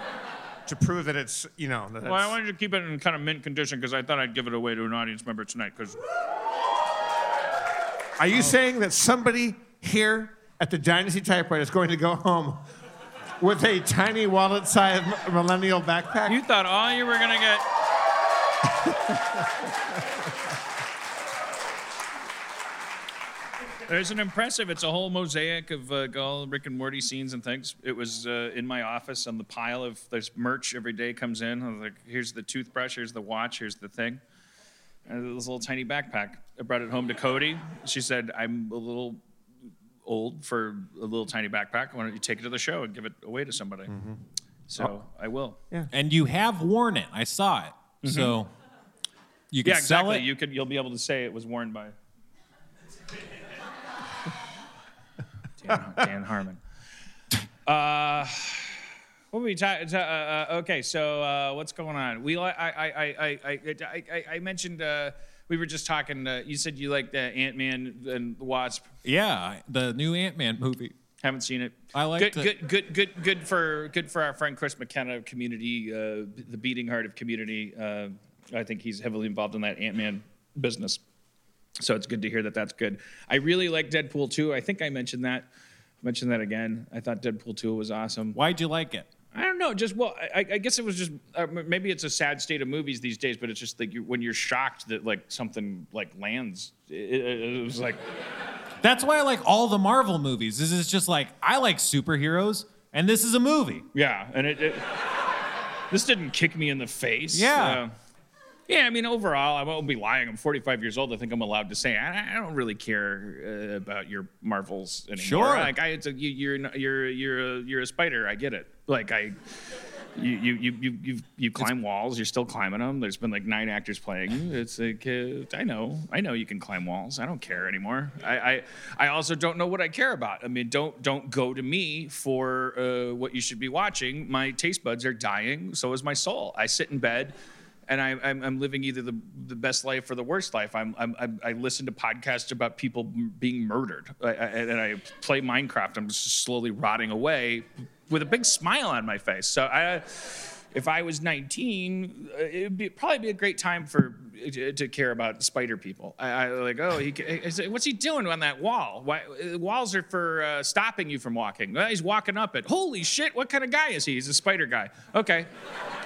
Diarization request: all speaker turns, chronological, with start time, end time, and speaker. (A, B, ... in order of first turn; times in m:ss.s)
0:00.7-0:02.4 A
0:02.0-0:06.0 B
0:08.2-0:12.6 A
0:13.4-0:16.4 A
0:16.3-0:17.6 B
0:23.9-0:34.2 B
0:35.1-0:39.2 B
0:40.0-0:43.9 B
0:43.9-0:44.2 A
0:44.7-0:45.6 B
0:45.9-0:48.5 C
0:48.0-0:48.4 B
0:49.5-0:50.3 C
0:49.6-0:52.0 B
0:55.6-0:56.6 B
0:57.7-0:58.8 B
0:59.3-1:08.9 B
1:09.0-1:10.9 C
1:11.2-1:21.0 B
1:11.9-1:12.5 C
1:21.8-1:25.5 B
1:26.0-1:28.4 B
1:28.3-1:29.1 C
1:29.3-1:38.0 B
1:38.8-1:43.9 C
1:43.9-1:44.9 B
1:45.9-1:47.9 B
1:47.3-1:47.8 C
1:48.7-1:59.4 B
1:55.2-1:55.8 C
2:00.2-2:17.4 B
2:17.9-2:45.5 B